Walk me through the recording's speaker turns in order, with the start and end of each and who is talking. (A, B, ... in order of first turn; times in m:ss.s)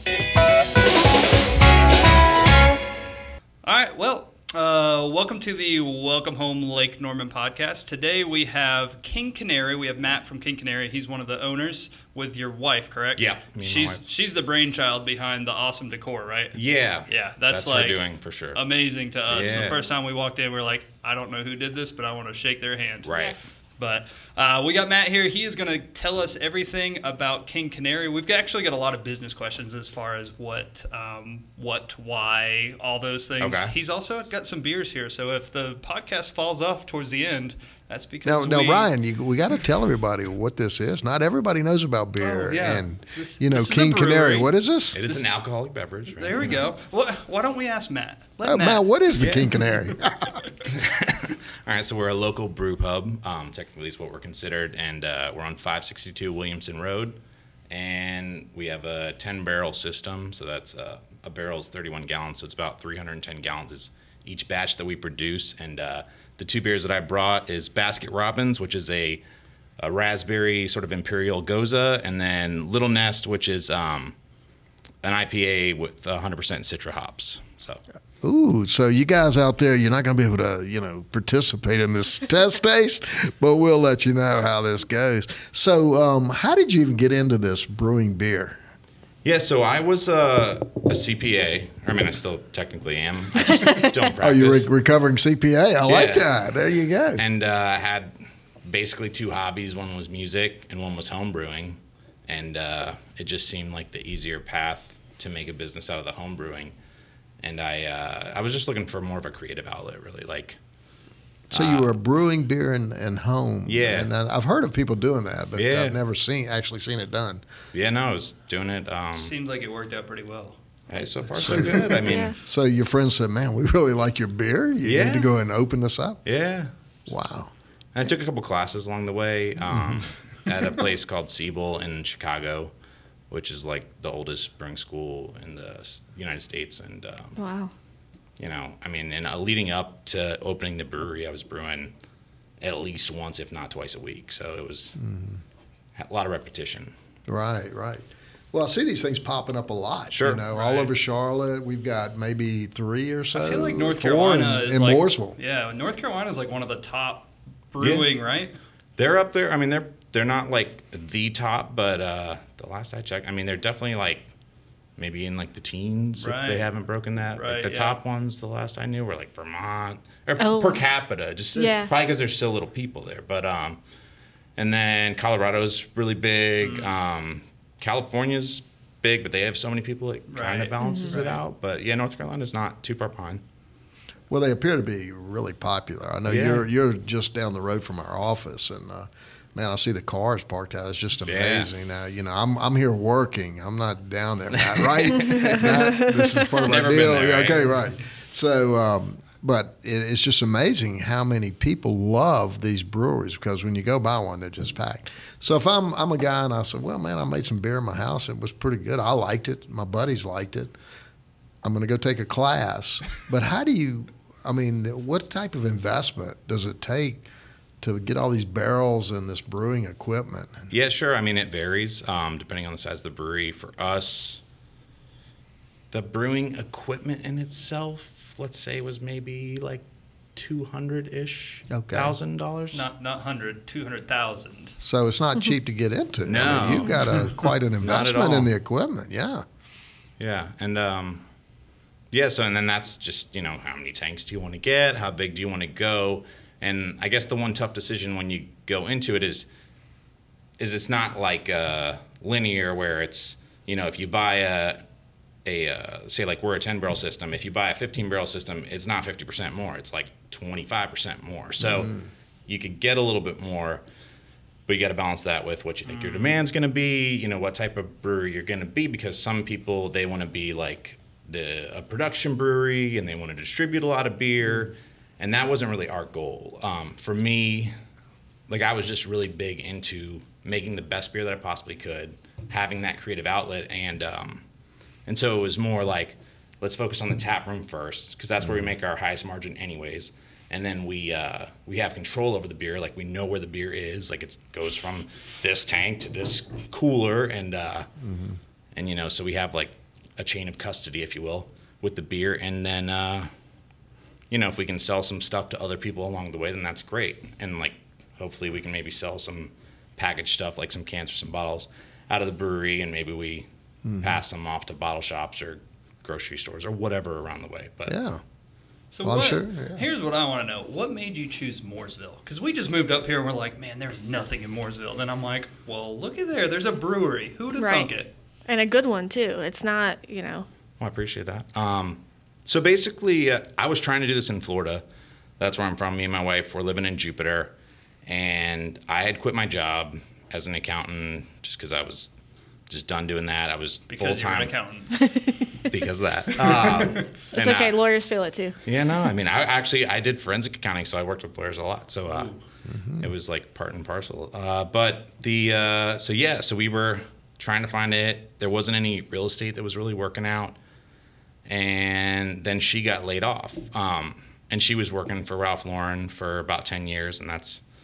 0:03.6-0:18.0 A
0:13.2-0:14.0 B
0:16.5-0:18.6 B
0:18.5-0:23.1 A
0:19.3-0:19.8 B
0:23.0-0:23.4 B
0:23.1-0:23.4 C
0:23.8-0:38.9 A
0:33.4-0:33.7 B
0:38.2-0:45.0 D
0:42.2-0:45.2 A
0:44.9-0:46.6 B
0:46.1-0:48.8 A
0:48.4-0:50.3 D
0:49.2-0:49.5 B
0:50.6-0:57.2 B
0:57.7-1:09.2 B
1:09.8-1:14.1 B
1:15.0-1:17.8 B
1:18.2-1:28.6 D
1:29.2-1:34.7 B
1:34.2-1:37.2 D
1:35.8-1:36.3 B
1:37.2-1:46.7 B
1:47.4-1:50.6 B
1:51.5-1:51.9 B
1:51.5-1:57.4 D
1:53.6-1:54.1 B
1:55.5-1:56.0 B
1:57.7-1:59.3 B
1:59.1-2:00.6 A
2:00.9-2:02.3 B
2:01.3-2:06.2 D
2:02.0-2:02.4 C
2:04.8-2:05.3 B
2:06.2-2:06.7 B
2:07.1-2:07.5 D
2:07.9-2:12.7 B
2:09.7-2:10.0 D
2:13.3-2:17.4 B
2:17.4-2:17.7 C
2:18.4-2:21.9 B
2:22.6-2:25.0 B
2:25.0-2:25.4 D
2:26.0-2:26.9 B
2:27.3-2:35.4 D
2:30.1-2:30.4 B
2:30.5-2:30.9 A
2:33.3-2:38.5 A
2:37.8-2:38.1 B
2:39.0-2:44.3 B
2:45.0-2:53.8 B
2:46.2-2:46.6 A
2:47.4-2:48.0 A
2:50.4-2:50.8 C
2:51.5-2:51.9 C
2:54.6-3:03.4 B
2:56.6-2:56.9 A
3:00.3-3:01.4 A
3:00.8-3:01.1 C
3:04.3-3:30.7 D
3:06.2-3:06.6 B
3:11.2-3:11.7 B
3:14.5-3:15.7 B
3:15.3-3:16.5 C
3:16.6-3:17.7 B
3:31.6-3:37.2 D
3:37.8-3:40.7 D
3:40.7-3:44.4 B
3:45.9-3:49.8 B
3:50.3-3:52.8 B
3:51.7-3:52.2 D
3:52.7-3:54.7 A
3:54.8-3:59.4 D
3:56.2-3:58.5 B
4:00.2-4:01.2 B
4:02.1-4:09.5 B
4:10.6-4:14.8 B
4:15.4-4:21.9 B
4:21.7-4:22.0 D
4:22.5-4:23.8 B
4:24.7-4:37.7 B
4:25.9-4:26.3 A
4:38.5-4:44.4 B
4:45.1-4:57.9 B
4:58.0-4:58.4 D
4:58.7-5:03.3 B
5:04.3-5:13.5 B
5:13.8-5:14.1 D
5:14.0-5:18.0 B
5:17.9-5:18.2 D
5:18.9-5:28.1 A
5:19.0-5:19.8 D
5:27.5-5:27.9 C
5:28.5-5:30.5 C
5:30.8-5:34.8 B
5:35.4-5:37.5 B
5:38.0-5:42.1 B
5:42.7-5:44.5 B
5:43.9-5:45.0 A
5:44.9-5:45.7 C
5:45.7-5:47.8 B
5:46.5-5:47.0 A
5:47.3-5:48.6 C
5:48.6-5:52.3 B
5:52.1-5:52.4 A
5:52.6-5:53.1 D
5:53.0-6:00.6 B
6:01.5-6:07.6 B